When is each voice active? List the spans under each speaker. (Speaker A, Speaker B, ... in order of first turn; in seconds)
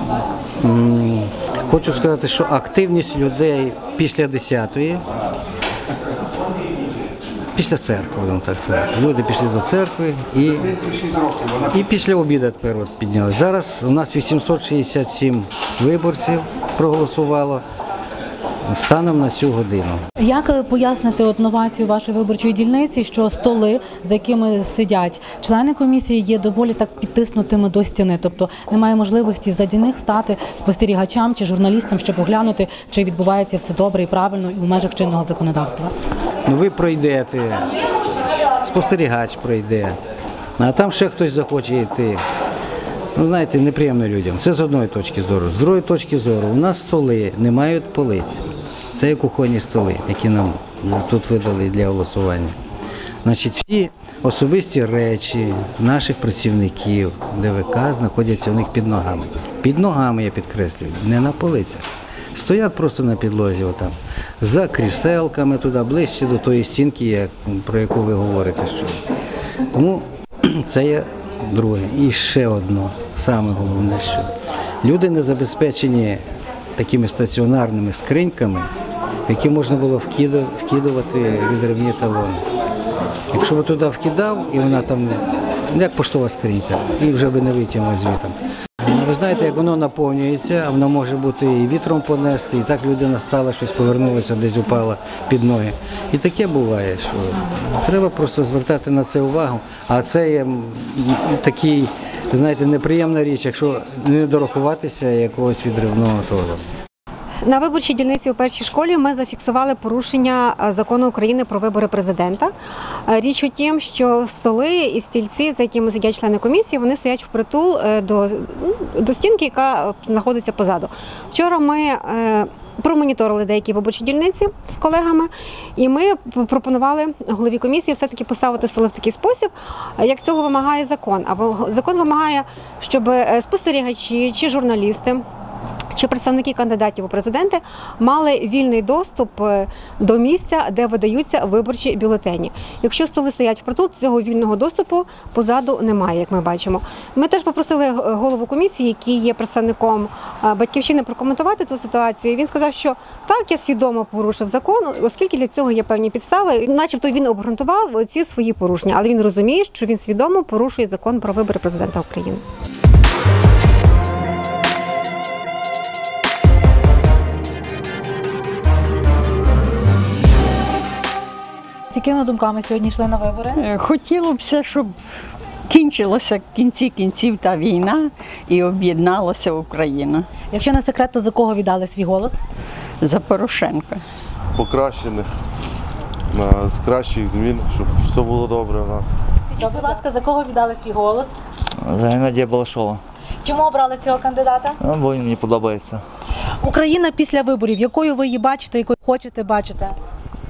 Speaker A: 0.6-5.0, 7.5-10.7, 11.7-17.6, 18.7-20.0, 36.5-37.7, 38.6-40.0, 40.6-42.2, 43.2-52.5, 53.2-69.0, 69.7-74.3, 74.8-76.2, 76.8-78.7, 79.3-82.4, 83.3-106.6
Speaker B: 20.2-35.9, 171.9-173.7, 180.5-182.4, 189.6-191.3, 193.4-194.8, 196.6-200.0
Speaker C: 107.4-112.5, 113.1-135.2, 135.9-162.4
Speaker D: 173.7-174.9, 175.7-180.1, 183.1-183.9
Speaker E: 184.6-185.3, 186.3-189.2
Speaker F: 191.8-193.0, 194.8-196.0